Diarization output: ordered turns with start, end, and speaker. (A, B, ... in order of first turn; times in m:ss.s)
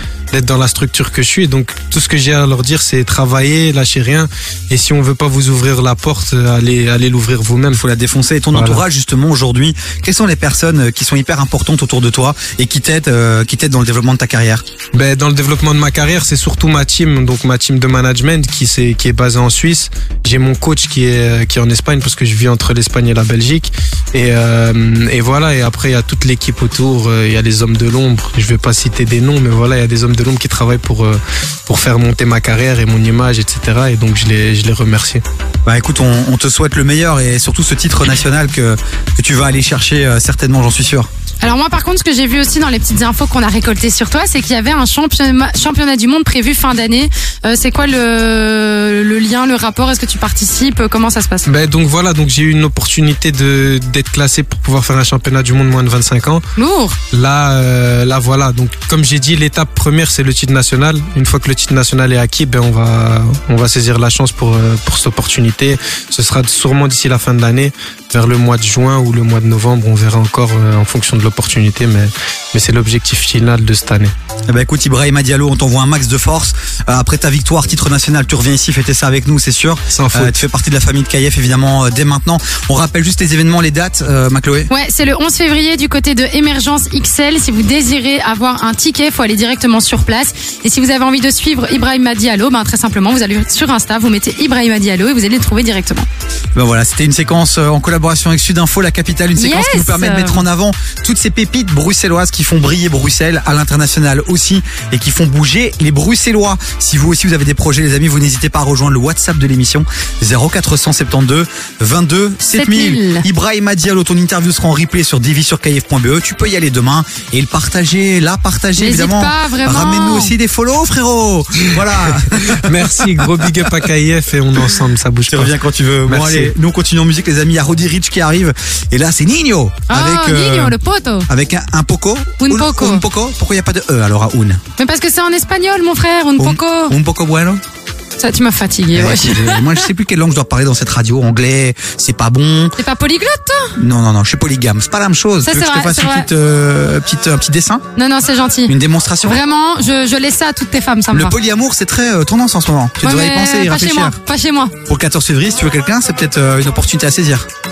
0:00.3-0:07.8 A
0:07.7-0:14.6 B
0:08.5-0:08.8 A
0:14.9-0:35.2 A
0:35.6-0:41.1 B
0:41.4-0:51.5 C
0:51.4-0:56.4 A
0:56.6-0:57.0 C
0:57.1-1:14.1 A
1:14.5-1:24.7 B
1:19.9-1:20.3 A
1:24.7-1:36.1 C
1:36.5-2:03.7 B
1:39.4-1:40.4 C
1:52.5-1:53.2 C
1:58.8-2:00.3 C
2:02.6-2:05.5 A
2:05.3-2:10.7 B
2:06.0-2:06.5 A
2:09.9-2:11.3 C
2:11.3-2:14.6 B
2:12.4-2:13.0 C
2:14.8-2:16.9 C
2:16.4-2:17.6 B
2:18.2-2:19.9 C
2:18.9-2:22.8 B
2:22.8-2:23.8 C
2:23.8-2:27.8 B
2:25.4-2:26.3 C
2:28.0-2:28.7 C
2:28.7-2:29.4 B
2:29.2-2:31.3 C
2:31.1-2:34.1 B
2:33.0-2:34.7 C
2:34.8-2:37.4 B